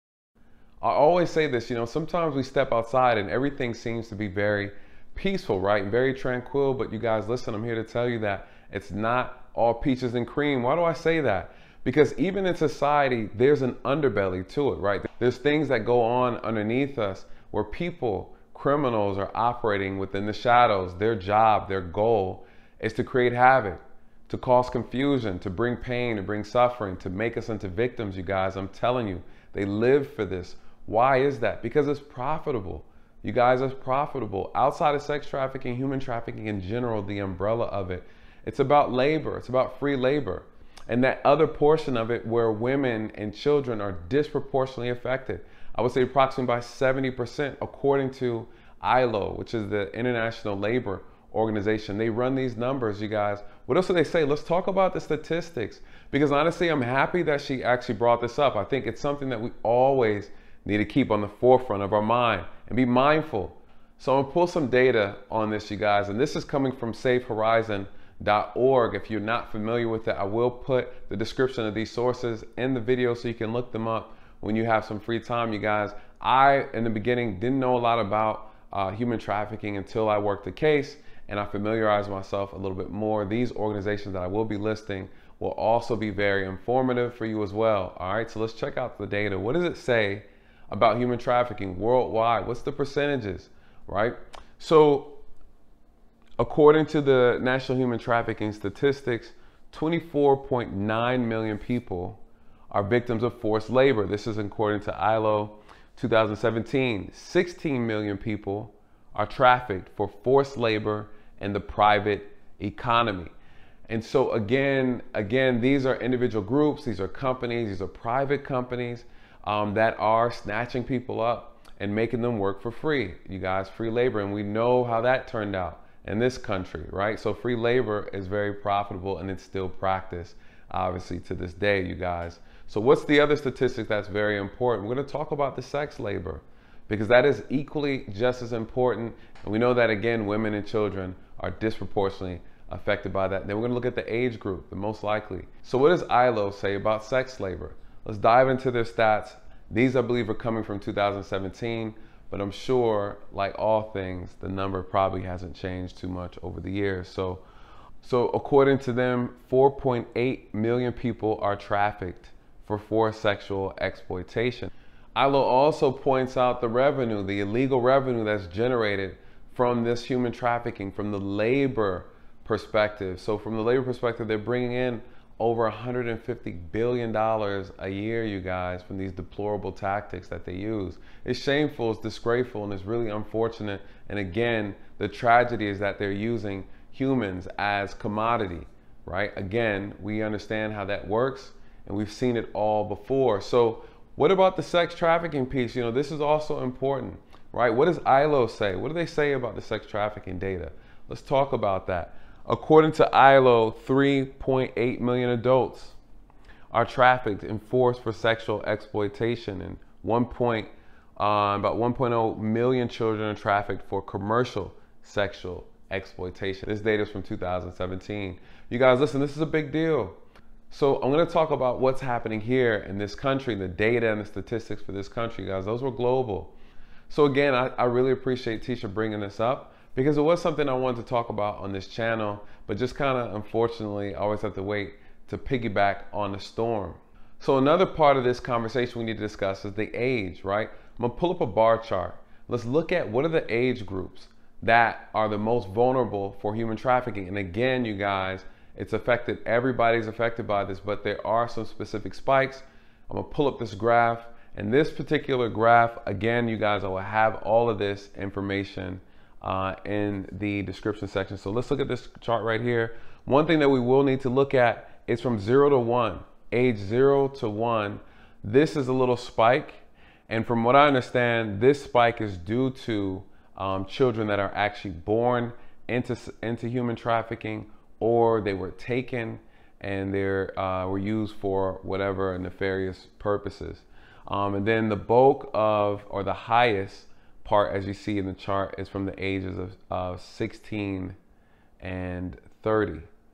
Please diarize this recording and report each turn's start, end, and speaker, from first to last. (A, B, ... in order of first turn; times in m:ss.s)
0:00.8-1:35.2 A
1:36.4-1:53.3 A
1:53.9-2:37.4 A
2:38.0-3:26.0 A
3:26.7-3:40.2 A
3:40.7-3:46.5 A
3:47.1-4:51.2 A
4:51.8-4:53.1 A